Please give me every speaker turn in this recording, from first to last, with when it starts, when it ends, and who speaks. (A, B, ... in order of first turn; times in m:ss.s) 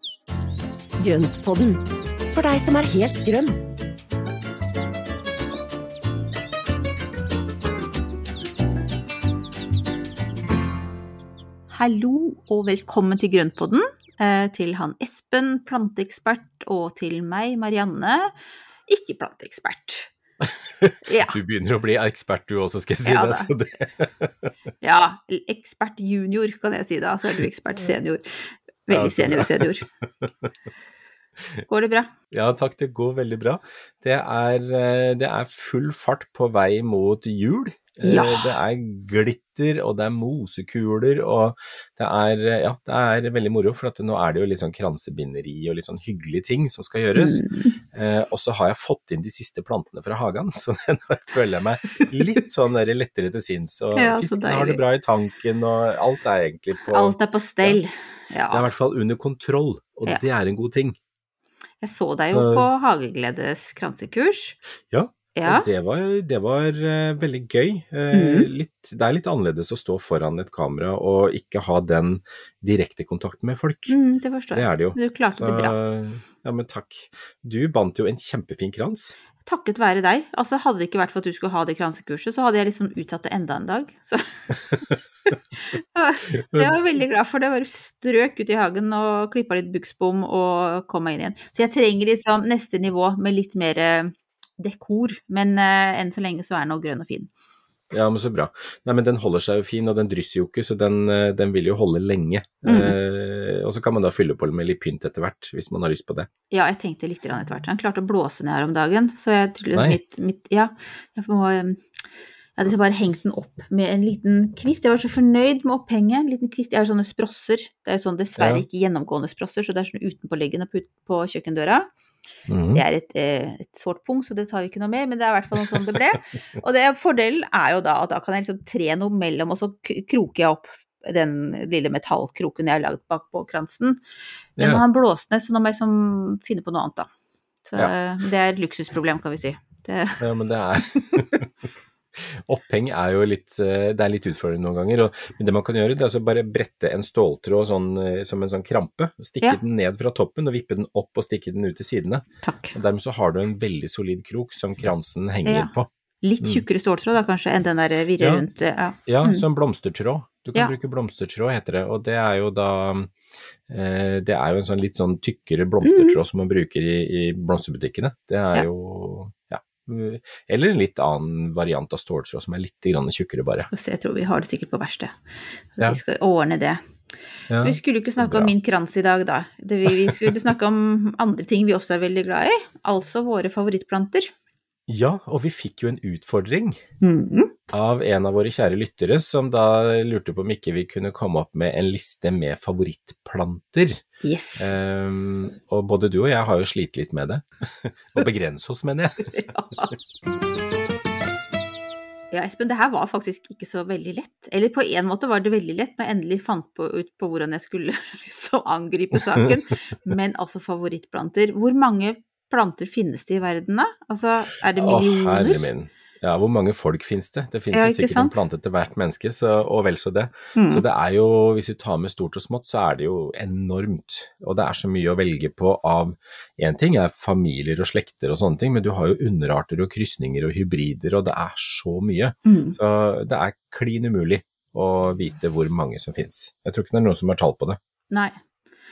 0:01.0-0:03.6 A
0:11.7-0:18.3 B
0:18.9-0:20.1 B
0:20.8-0:24.5 C
0:21.0-0:21.4 B
0:23.0-0:23.5 B
0:24.8-0:29.8 B
0:28.9-0:29.6 C
0:31.7-0:32.1 B
0:32.3-0:57.8 C
0:38.0-0:38.6 B
0:47.2-0:47.8 B
0:51.9-0:52.3 B
0:54.0-0:54.8 B
0:56.9-0:58.7 B
0:58.5-1:01.0 C
1:01.8-1:04.6 B
1:02.3-1:02.7 C
1:04.9-1:14.0 C
1:05.4-1:05.7 B
1:08.1-1:08.5 B
1:13.9-1:15.8 B
1:14.5-1:19.2 C
1:19.4-1:24.6 B
1:25.5-1:37.3 B
1:26.5-1:26.7 C
1:37.9-1:46.3 C
1:42.6-1:42.9 B
1:46.5-1:51.8 B
1:52.6-2:01.9 B
1:58.4-1:58.6 C
2:02.5-2:02.8 C
2:02.7-2:14.0 B
2:05.6-2:05.9 C
2:14.6-2:14.8 C
2:14.6-2:17.1 B
2:17.6-2:20.2 B
2:20.2-2:21.4 C
2:21.0-2:21.2 B
2:22.2-2:35.9 C
2:32.4-2:32.7 B
2:35.4-2:35.7 B
2:36.2-2:39.4 B
2:38.2-2:38.5 C
2:39.1-2:43.1 C
2:43.7-2:53.7 C
2:45.8-2:46.2 B
2:53.6-2:55.2 B
2:55.8-2:56.8 B
2:57.5-2:58.5 C
2:57.6-3:04.3 B
2:59.9-3:00.2 C
3:04.9-3:06.8 C
3:07.0-3:07.5 B
3:07.7-3:14.0 C
3:14.2-3:14.7 B
3:14.6-3:19.4 C
3:19.3-3:20.0 B
3:22.3-3:35.7 B
3:34.8-3:57.8 C
3:37.7-3:38.4 B
3:40.6-3:40.8 B
3:52.4-3:52.8 B
3:58.1-3:58.4 B